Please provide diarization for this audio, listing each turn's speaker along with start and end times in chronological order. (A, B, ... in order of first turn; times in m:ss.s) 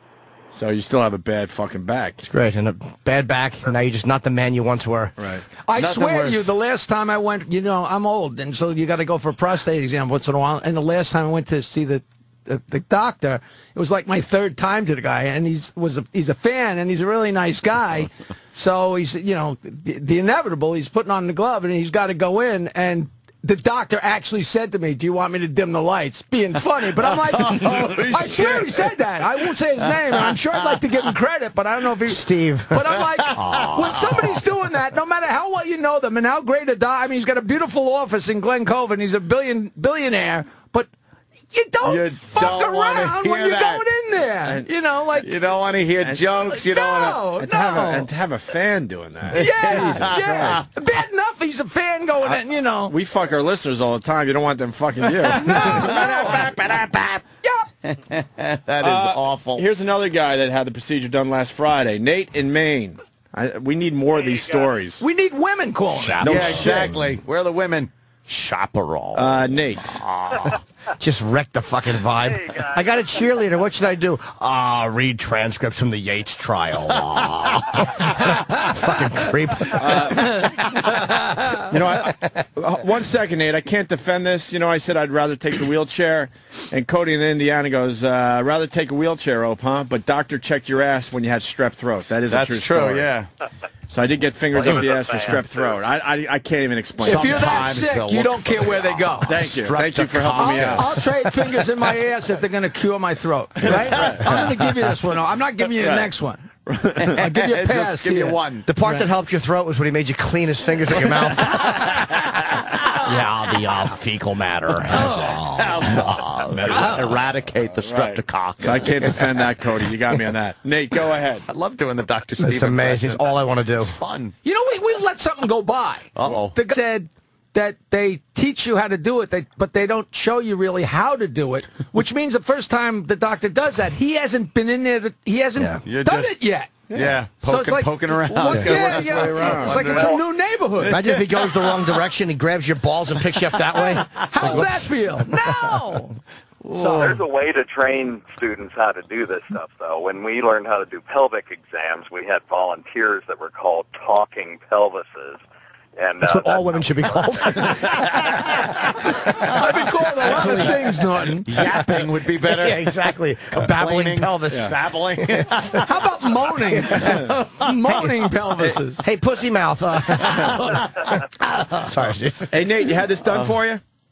0:00.5-0:02.3 A
0:02.2-0:05.2 B
0:05.2-0:05.4 A
0:05.6-0:40.9 C
0:05.8-0:06.5 D
0:27.1-0:28.9 D
0:29.8-0:30.8 D
0:32.1-0:34.4 B
0:33.4-0:34.3 D
0:41.5-0:45.3 C
0:41.8-0:43.8 D
0:44.4-0:44.7 A
0:45.2-0:47.3 D
0:46.0-0:46.3 A
0:46.5-0:48.1 C
0:47.4-0:50.6 A
0:49.3-0:53.0 C
0:49.5-0:50.6 D
0:52.2-0:57.2 A
0:55.4-0:56.4 D
0:55.4-0:56.4 C
0:57.8-0:59.7 D
0:58.8-1:05.0 A
1:04.1-1:04.8 E
1:05.0-1:06.7 C
1:05.9-1:07.2 B
1:06.2-1:10.6 D
1:09.1-1:10.0 A
1:11.0-1:20.9 B
1:12.2-1:13.5 E
1:18.2-1:18.7 D
1:19.7-1:20.5 A
1:21.2-1:21.6 C
1:21.7-1:33.1 A
1:22.0-1:22.3 B
1:32.3-1:33.3 D
1:33.9-1:37.7 A
1:34.5-1:35.8 E
1:37.0-1:41.1 D
1:37.0-1:39.6 C
1:39.2-1:41.0 A
1:40.3-1:46.4 C
1:43.7-1:44.2 A
1:45.8-1:46.1 A
1:46.7-1:47.1 A
1:47.0-1:49.1 D
1:47.1-1:48.4 C
1:48.7-1:52.1 B
1:53.0-1:56.3 B
1:54.9-1:55.4 C
1:55.0-1:59.5 D
1:56.5-2:01.5 A
1:56.7-1:57.1 C
2:01.5-2:04.4 D
2:02.4-2:04.0 B
2:04.4-2:16.7 C
2:06.2-2:06.6 D
2:15.6-2:15.8 B
2:15.8-2:16.4 D
2:16.9-2:17.2 A
2:16.9-2:20.2 D
2:17.4-2:21.0 C
2:18.5-2:20.0 A
2:19.9-2:20.2 E
2:20.8-2:21.8 D
2:20.8-2:25.0 B
2:24.2-2:26.2 C
2:24.2-2:24.7 D
2:26.7-2:27.2 C
2:26.8-2:35.4 E
2:36.0-2:37.7 E
2:36.2-2:38.3 B
2:39.5-2:41.5 C
2:40.2-2:40.8 B
2:40.3-2:40.6 D
2:41.5-2:45.9 B
2:41.5-2:46.0 D
2:45.8-2:49.0 C
2:46.7-2:47.3 B
2:46.9-2:47.6 D
2:47.8-2:48.3 B
2:49.0-2:52.6 B
2:50.3-2:50.8 C
2:50.7-2:51.1 D
2:52.5-2:53.8 A
2:53.3-2:53.6 D